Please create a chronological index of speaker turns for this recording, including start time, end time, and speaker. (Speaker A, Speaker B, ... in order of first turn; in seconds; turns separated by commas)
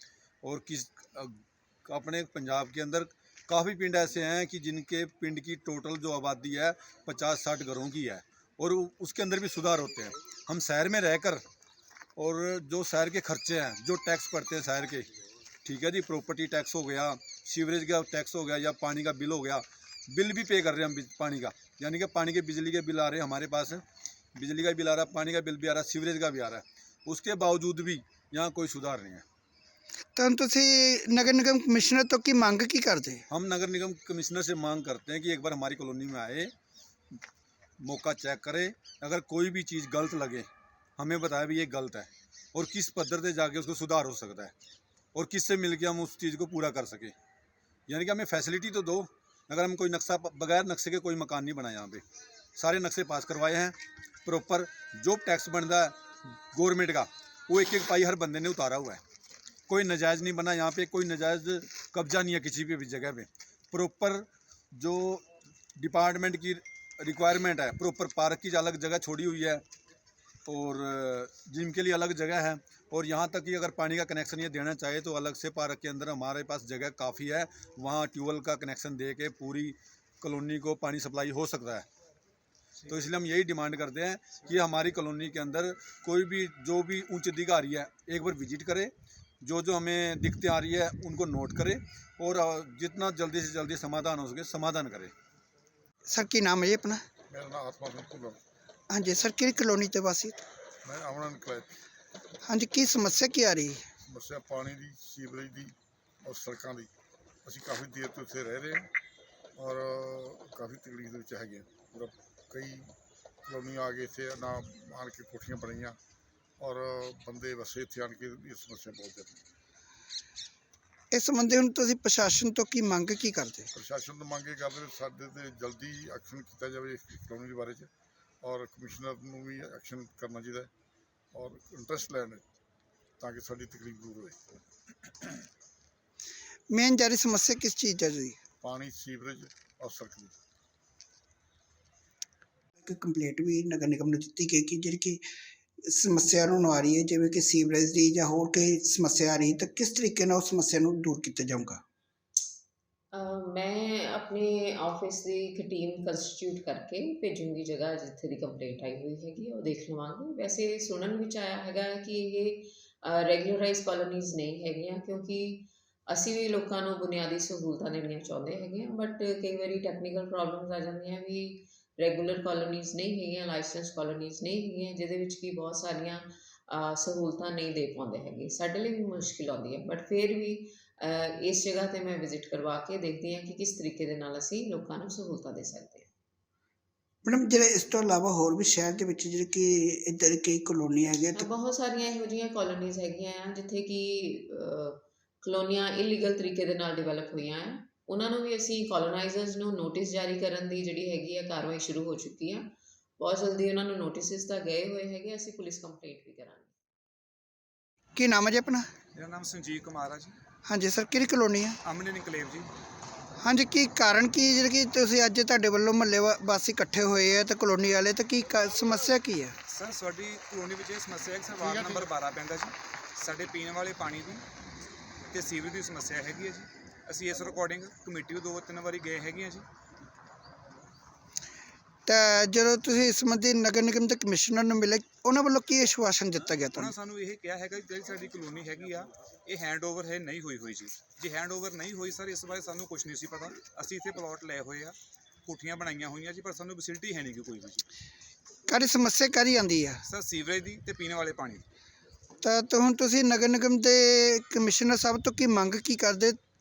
Speaker A: 0.4-11.4, Speaker A: 12.2-15.1, Speaker A: 15.6-23.8, Speaker A: 24.3-29.2, Speaker B: 30.1-33.2, Speaker A: 33.3-36.5, Speaker A: 37.8-44.5, Speaker A: 45.1-47.1, Speaker A: 47.9-52.0, Speaker A: 52.5-59.0, Speaker A: 59.7-69.6, Speaker A: 70.4-81.9, Speaker A: 82.8-95.1, Speaker B: 96.1-97.0, Speaker C: 97.3-98.4, Speaker B: 98.9-100.4, Speaker C: 100.8-101.7, Speaker B: 102.4-103.8, Speaker C: 104.0-106.9, Speaker C: 107.4-108.9, Speaker C: 109.5-112.9, Speaker C: 113.4-116.0, Speaker C: 116.6-119.4, Speaker B: 121.1-123.7, Speaker C: 123.7-127.9, Speaker C: 128.4-130.7, Speaker C: 131.3-132.4, Speaker C: 133.2-134.4, Speaker B: 136.7-138.4, Speaker C: 138.6-140.3, Speaker B: 142.8-145.2, Speaker B: 145.8-151.8, Speaker D: 153.1-186.1, Speaker B: 187.2-191.5, Speaker D: 191.3-206.7, Speaker B: 208.1-208.9, Speaker E: 209.1-210.4, Speaker B: 210.7-211.8, Speaker E: 211.8-212.7, Speaker B: 213.4-219.6, Speaker E: 219.7-224.4, Speaker E: 225.3-229.7, Speaker B: 232.1-236.9, Speaker E: 236.7-247.8, Speaker B: 248.7-250.0, Speaker E: 250.1-251.6, Speaker B: 252.4-256.4